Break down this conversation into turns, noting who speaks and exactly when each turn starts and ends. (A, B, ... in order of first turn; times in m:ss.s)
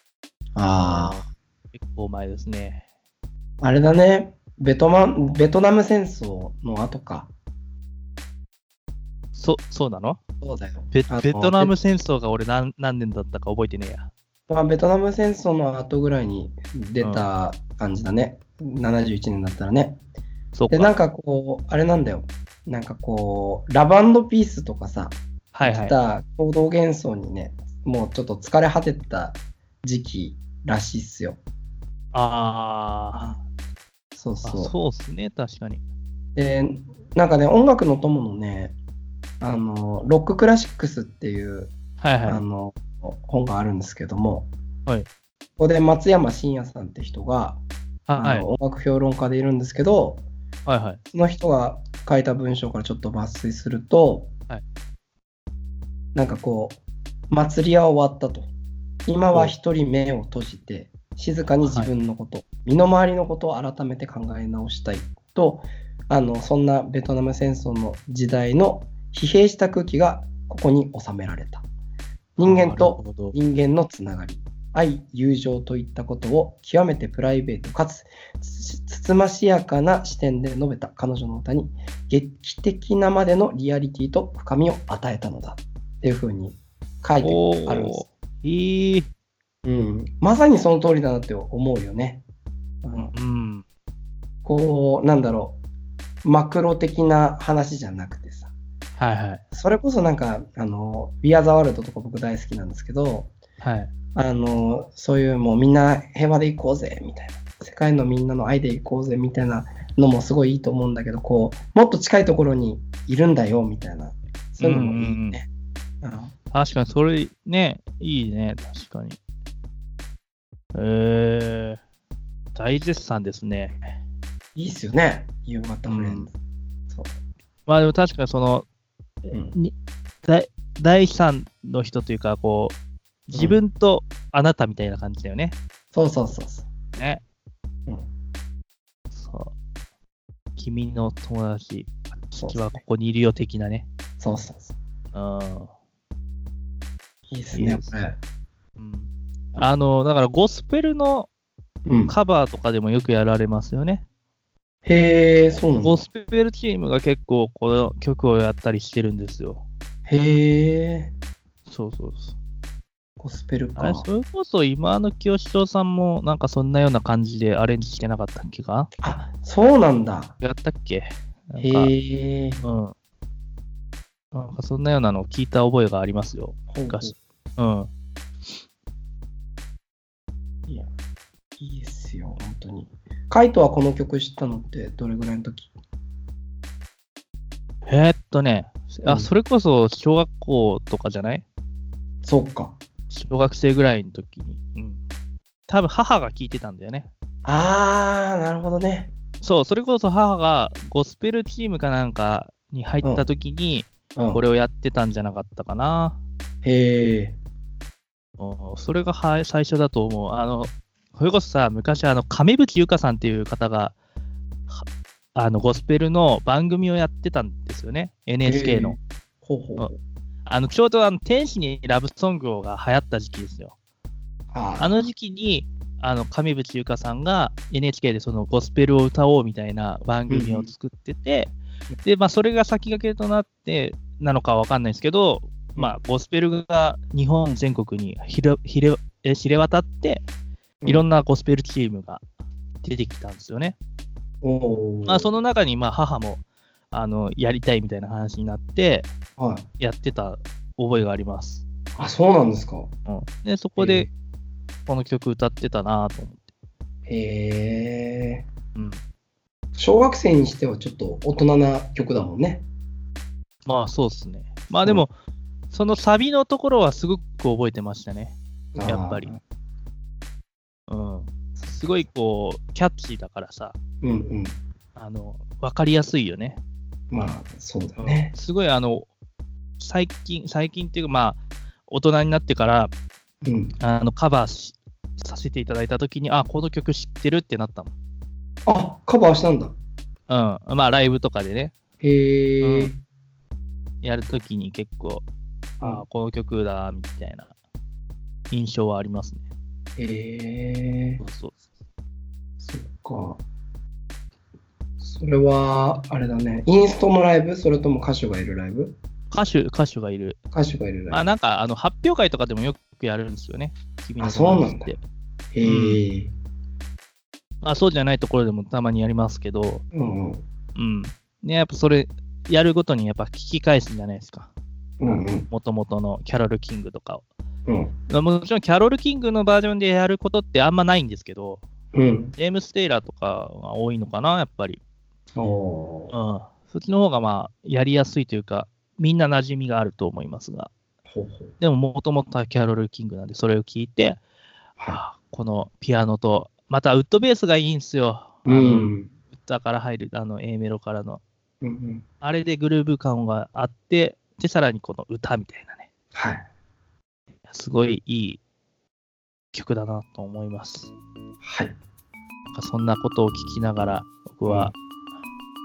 0:00.5-0:01.2 A
0:00.8-0:02.8 B
0:03.6-0:07.3 A
0:09.3-0:10.2 B
0:10.4-0:11.7 A
0:10.9-0:14.1 B
0:14.5-0:20.0 A
0:17.0-0:17.2 B
0:20.5-0:20.9 B
0:20.7-0:31.4 A
0:25.5-0:25.9 B
0:32.1-0:33.4 B
0:34.2-0:34.7 A
0:34.4-0:35.8 B
0:36.3-0:38.8 A
0:39.4-0:41.7 A
0:42.0-0:42.4 B
0:42.2-0:44.5 A
0:45.6-0:47.6 A
0:48.1-0:48.4 B
0:48.2-0:50.2 A
0:50.6-0:51.0 B
0:51.1-0:54.3 A
0:56.1-0:58.5 A
0:59.1-1:11.6 A
1:01.6-1:01.9 B
1:12.4-1:28.0 A
1:12.4-1:13.3 B
1:27.2-1:29.1 B
1:29.6-1:32.2 A
1:32.8-1:33.1 A
1:33.1-1:33.6 B
1:34.4-1:35.6 A
1:36.2-1:38.5 A
1:39.0-1:39.4 B
1:39.5-1:43.3 A
1:43.6-1:43.9 B
1:44.1-1:55.5 A
1:54.6-1:55.4 B
1:56.0-1:56.3 A
1:56.5-1:59.2 B
2:00.7-2:01.8 B
2:02.5-2:03.9 B
2:04.5-2:06.3 A
2:05.9-2:06.3 B
2:07.7-2:08.6 B
2:09.3-2:09.5 A
2:10.2-2:12.8 B
2:13.3-2:15.6 B
2:13.3-2:13.6 A
2:15.9-2:16.7 A
2:17.0-2:17.2 B
2:19.1-2:19.5 B
2:20.6-2:23.9 B
2:22.4-2:22.8 A
2:24.2-2:24.8 A
2:25.1-2:25.7 B
2:27.3-2:28.2 A
2:27.5-2:27.9 B
2:28.8-2:31.3 B
2:31.8-2:32.1 A
2:32.1-2:34.0 B
2:34.8-2:36.0 A
2:35.8-2:39.6 B
2:40.1-2:41.1 A
2:41.7-2:42.4 B
2:43.2-2:44.0 A
2:43.8-2:48.9 B
2:49.0-2:50.3 A
2:50.4-2:51.9 B
2:51.6-2:52.6 A
2:52.6-2:52.9 B
2:54.3-2:57.9 B
2:56.7-2:57.1 A
3:01.6-3:05.7 A
3:07.9-3:11.4 B
3:12.2-3:12.8 A
3:13.1-3:15.0 B
3:15.7-3:17.1 B
3:17.4-3:19.1 A
3:19.4-3:26.2 B
3:23.0-3:23.3 A
3:24.2-3:24.4 A
3:26.6-3:27.4 A
3:28.4-3:34.0 B
3:34.7-3:39.0 B
3:38.4-3:40.0 A
3:40.4-3:43.7 B
3:44.5-3:45.0 A
3:44.8-4:00.2 B
3:50.3-3:50.7 A
4:00.8-4:02.2 B
4:02.8-4:03.8 B
4:04.4-4:05.3 A
4:05.0-4:09.1 B
4:09.4-4:09.6 A
4:09.8-4:11.6 B
4:12.0-4:12.9 A
4:13.1-4:14.1 B
4:13.8-4:14.1 A
4:14.9-4:16.4 B
4:17.0-4:18.4 A
4:18.7-4:19.0 B
4:19.8-4:22.6 A
4:23.6-4:25.1 B
4:25.7-4:29.3 B
4:28.7-4:29.4 A
4:30.9-4:33.7 B
4:34.0-4:34.6 A
4:34.9-4:36.6 B
4:37.1-4:38.3 A
4:38.0-4:39.1 B
4:39.8-4:42.9 B
4:43.4-4:43.7 A
4:43.8-4:47.9 B
4:48.6-4:49.7 A
4:50.3-4:51.7 B
4:52.0-4:53.0 A
4:52.6-4:52.9 B
4:54.0-4:55.2 B
4:55.8-4:57.5 B
4:58.5-4:59.4 B
5:00.0-5:01.2 A
5:01.2-5:01.6 B
5:02.6-5:03.4 A
5:05.0-5:09.0 A
5:09.3-5:10.4 B
5:10.5-5:11.3 A
5:11.1-5:15.0 B
5:14.2-5:14.9 A
5:15.5-5:16.3 A
5:15.6-5:16.0 B
5:17.6-5:19.8 B
5:19.9-5:20.4 A
5:20.7-5:24.5 B
5:25.0-5:25.5 A
5:25.1-5:27.2 B
5:27.6-5:27.9 A
5:28.1-5:31.6 B
5:31.9-5:32.3 A
5:32.3-5:34.8 B
5:35.4-5:36.1 A
5:36.1-5:40.7 B
5:41.1-5:41.5 A
5:41.6-5:44.2 B
5:44.9-5:51.2 B
5:48.4-5:49.1 A
5:51.6-5:52.0 A
5:52.2-5:55.9 B
5:56.1-5:56.4 A
5:57.5-5:58.4 B
5:59.5-6:00.9 B
6:01.4-6:01.7 A
6:02.5-6:04.7 B
6:04.4-6:04.7 A